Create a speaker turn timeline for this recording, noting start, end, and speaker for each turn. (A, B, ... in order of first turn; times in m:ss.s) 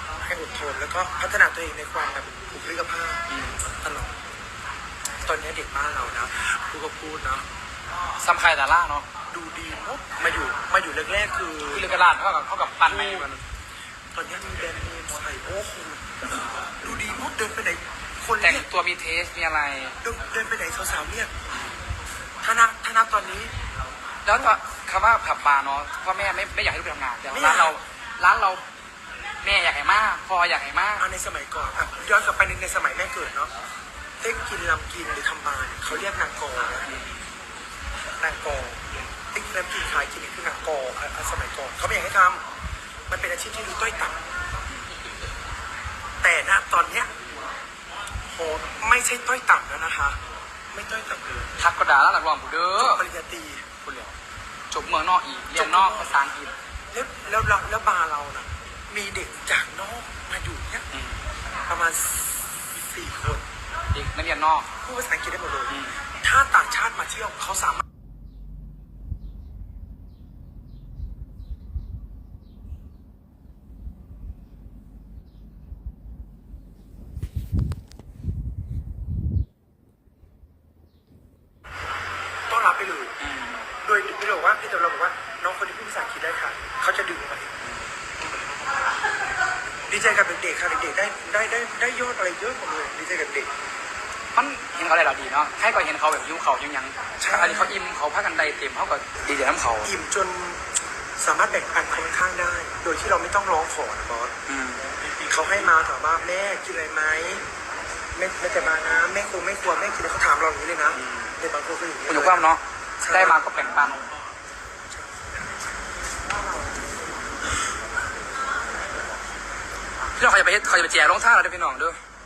0:00.2-0:04.2 A
0:03.3-0:03.6 B
0:05.2-0:07.5 A
0:08.2-0:09.1 B
0:09.3-0:12.0 A
0:11.7-0:13.4 B
0:12.8-0:13.3 A
0:14.1-0:16.2 A
0:16.8-0:18.7 A
0:18.4-0:20.0 B
0:20.0-0:21.3 A
0:22.4-0:23.5 A
0:24.2-0:28.6 B
0:27.3-0:27.8 A
0:29.4-0:31.0 B
0:31.0-0:33.5 A
0:34.2-0:36.9 A
0:38.2-0:42.4 A
0:43.1-0:44.2 A
0:46.2-0:47.1 A
0:48.3-0:50.2 A
0:50.7-0:51.5 A
0:51.6-0:53.0 B
0:52.8-0:53.6 A
0:53.8-0:54.1 B
0:54.7-0:56.5 B
0:55.5-0:56.2 A
0:56.9-1:00.9 A
1:00.9-1:01.2 B
1:01.7-1:03.4 A
1:03.9-1:04.7 B
1:04.8-1:07.8 A
1:05.7-1:06.0 B
1:22.5-1:23.2 A
1:23.2-1:23.7 B
1:23.8-1:27.6 A
1:29.9-1:33.5 A
1:34.3-1:39.9 B
1:37.2-1:37.7 A
1:39.8-1:40.6 A
1:41.2-1:44.3 A
1:44.5-1:44.8 B
1:45.2-1:47.4 A
1:48.1-1:53.5 A
1:50.9-1:51.3 B
1:52.1-1:54.0 B
1:54.9-1:55.5 A
2:00.2-2:02.0 B